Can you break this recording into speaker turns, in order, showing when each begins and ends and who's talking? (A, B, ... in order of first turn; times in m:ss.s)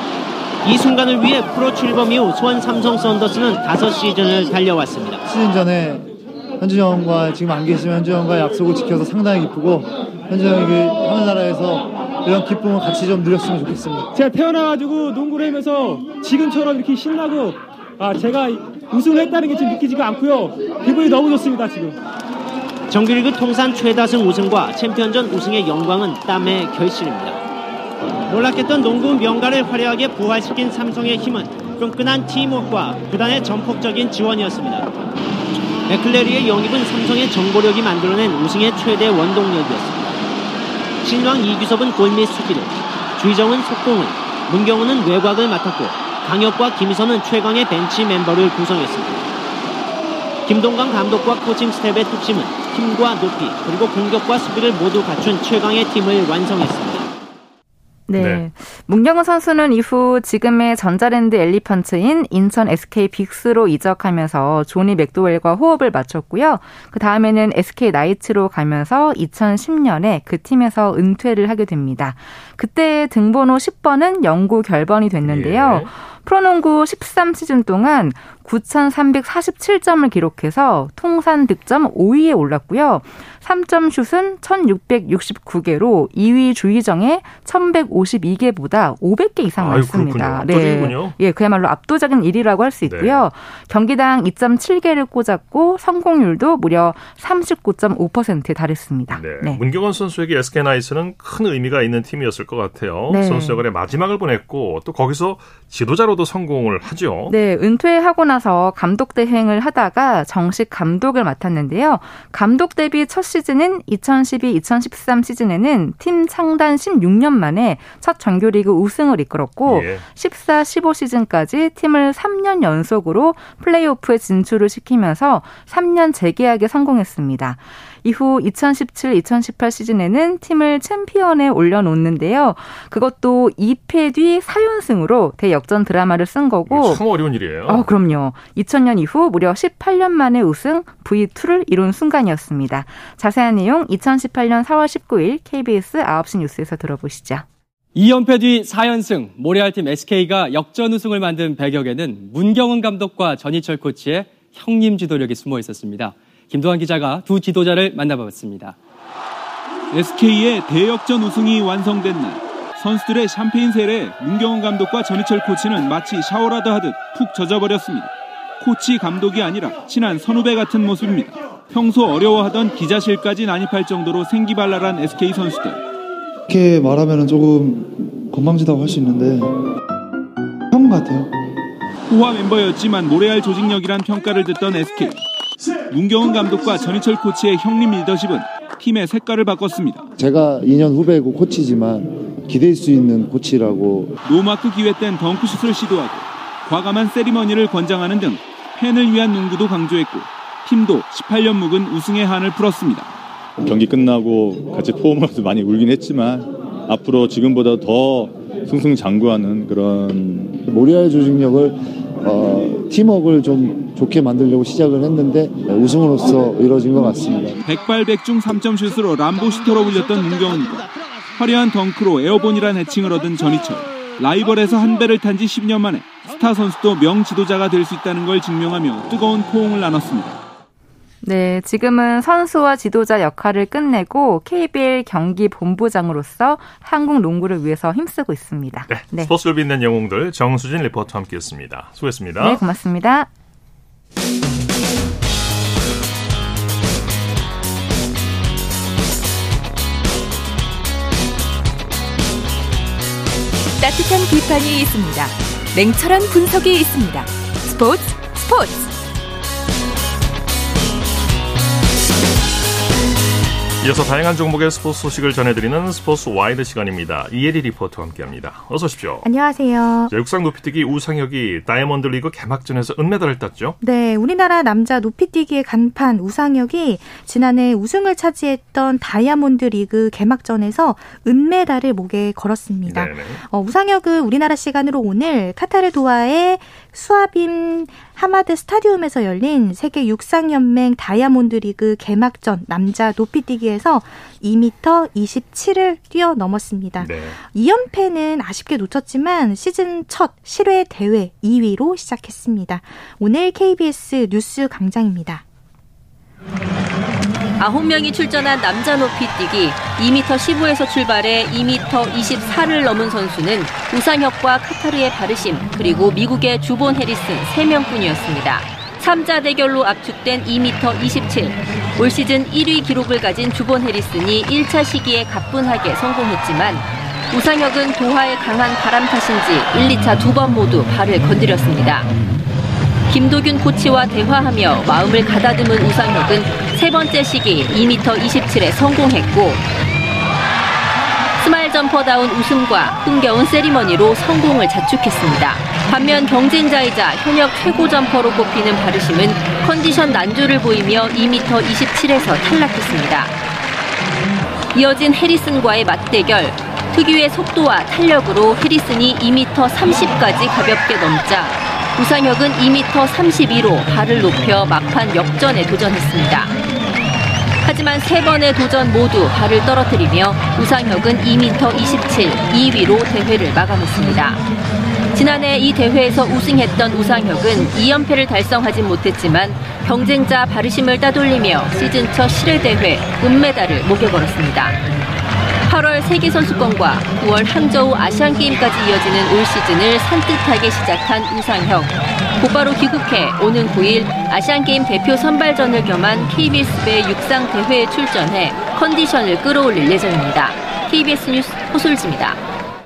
0:00.6-0:05.2 A
0:05.2-0:14.1 B
0:14.1-0:22.0 C
0:22.9-0:27.4 A
0:28.3-0:34.9 A
0:35.9-0:40.2 A
0:41.0-0:49.3 A
0:50.5-0:57.1 A
0:58.1-1:39.6 D
0:58.2-0:58.4 E
1:15.2-1:15.9 E
1:29.6-1:31.2 E
1:32.9-1:33.2 E
1:39.1-1:47.4 E
1:43.1-1:43.6 D
1:47.3-2:17.0 D
1:59.7-2:00.0 E
2:16.7-2:17.9 E
2:17.7-2:27.4 D
2:28.0-2:38.8 F
2:39.9-2:48.1 G
2:48.6-2:55.8 G
2:56.5-2:59.5 B
3:00.7-3:01.3 B
3:02.1-3:05.2 G
3:05.9-3:10.0 G
3:10.2-3:14.2 B
3:14.3-3:23.1 G
3:23.6-3:30.7 H
3:30.7-3:37.6 B
3:37.6-3:40.7 G
3:41.4-3:50.4 G
3:51.2-3:59.3 D
3:58.9-4:02.6 E
4:02.4-4:03.3 D
4:13.6-4:18.9 I
4:23.8-4:29.3 E
4:29.2-4:30.1 J
4:30.1-4:33.8 E
4:33.8-5:05.4 J
4:42.8-4:43.4 E
4:57.0-4:57.4 E
5:07.6-5:32.1 K
5:33.1-5:39.7 K
5:41.4-5:53.4 K
5:54.7-6:06.5 K
6:07.6-6:14.4 K
6:15.1-6:24.8 K
6:25.7-6:42.4 K